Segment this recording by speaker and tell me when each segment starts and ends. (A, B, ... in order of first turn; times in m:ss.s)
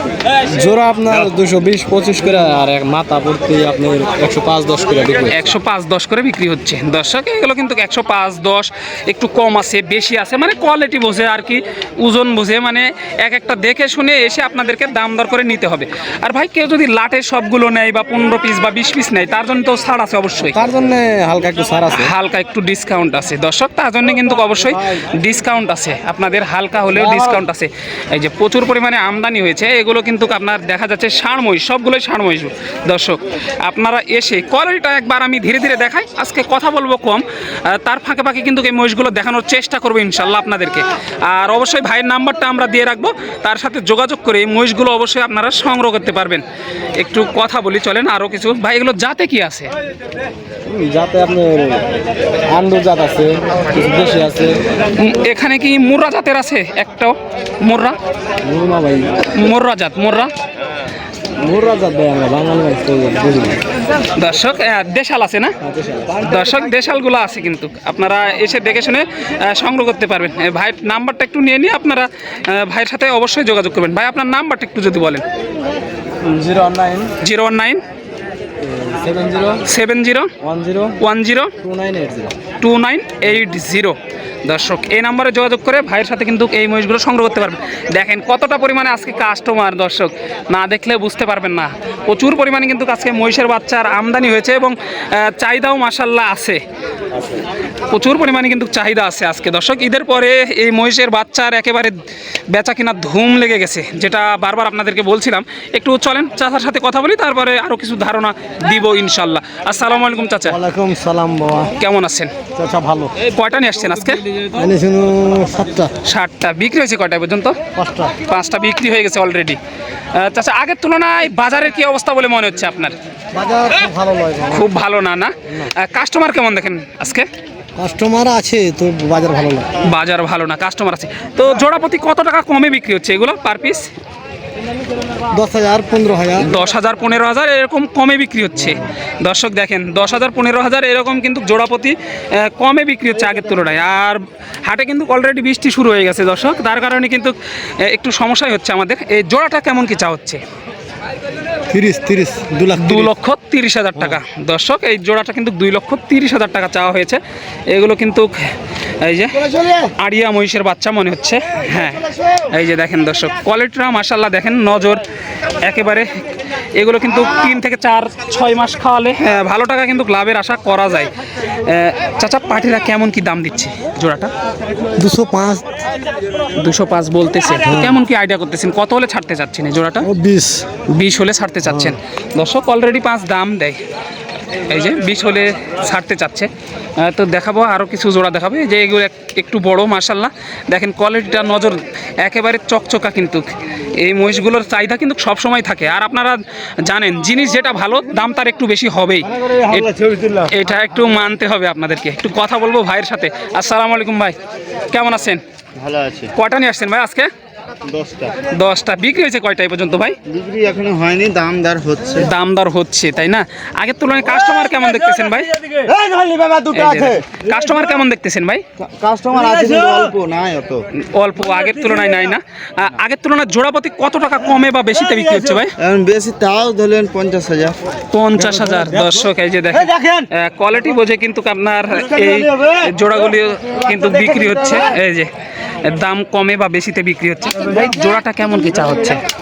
0:00.4-0:05.4 A
0:05.3-0:20.6 B
0:20.5-0:22.1 A
0:21.9-0:46.4 B
0:27.0-0:27.4 A
0:47.0-0:49.7 B
0:50.7-0:51.9 A
0:52.5-0:54.6 A
0:55.0-0:58.0 B
0:58.4-0:59.2 A
0:59.3-1:00.3 B
1:01.4-1:03.6 A
1:04.2-1:05.5 B
1:05.6-1:06.2 A
1:06.2-1:15.2 B
1:16.2-1:17.1 A
1:17.2-1:17.8 B
1:18.6-1:19.6 A
1:19.6-1:20.3 B
1:20.4-1:21.0 A
1:21.0-1:21.5 B
1:21.6-1:22.3 A
1:22.6-1:36.6 B
1:37.9-1:41.9 B
1:42.5-1:50.6 B
1:50.5-1:51.7 A
1:51.8-1:52.3 B
1:52.6-1:53.1 A
1:53.2-1:54.2 B
1:54.5-1:55.9 A
1:56.0-1:57.6 B
1:57.8-1:58.1 A
1:58.3-1:59.6 B
2:00.1-2:03.0 B
2:03.3-2:04.6 A
2:04.5-2:07.3 B
2:07.8-2:09.7 A
2:09.8-2:13.9 B
2:15.3-2:16.4 A
2:16.4-2:30.4 B
2:31.7-2:33.1 A
2:32.8-2:38.5 B
2:39.0-2:45.0 B
2:45.6-2:46.2 B
2:46.8-2:51.1 B
2:51.6-2:54.3 B
2:55.0-2:55.6 A
2:56.6-3:00.1 B
2:57.7-2:58.0 A
3:00.0-3:00.7 A
3:00.9-3:03.8 B
3:01.7-3:02.0 A
3:04.7-3:24.4 B
3:24.9-3:25.4 B
3:25.8-3:26.3 C
3:26.4-3:27.3 B
3:27.9-3:28.4 C
3:28.5-3:30.2 B
3:30.3-3:32.3 C
3:32.2-3:35.7 B
3:35.8-3:37.2 C
3:36.7-3:38.6 B
3:38.8-3:40.8 C
3:41.0-3:45.7 B
3:45.8-3:47.8 C
3:48.1-3:55.3 B
3:55.8-3:59.2 B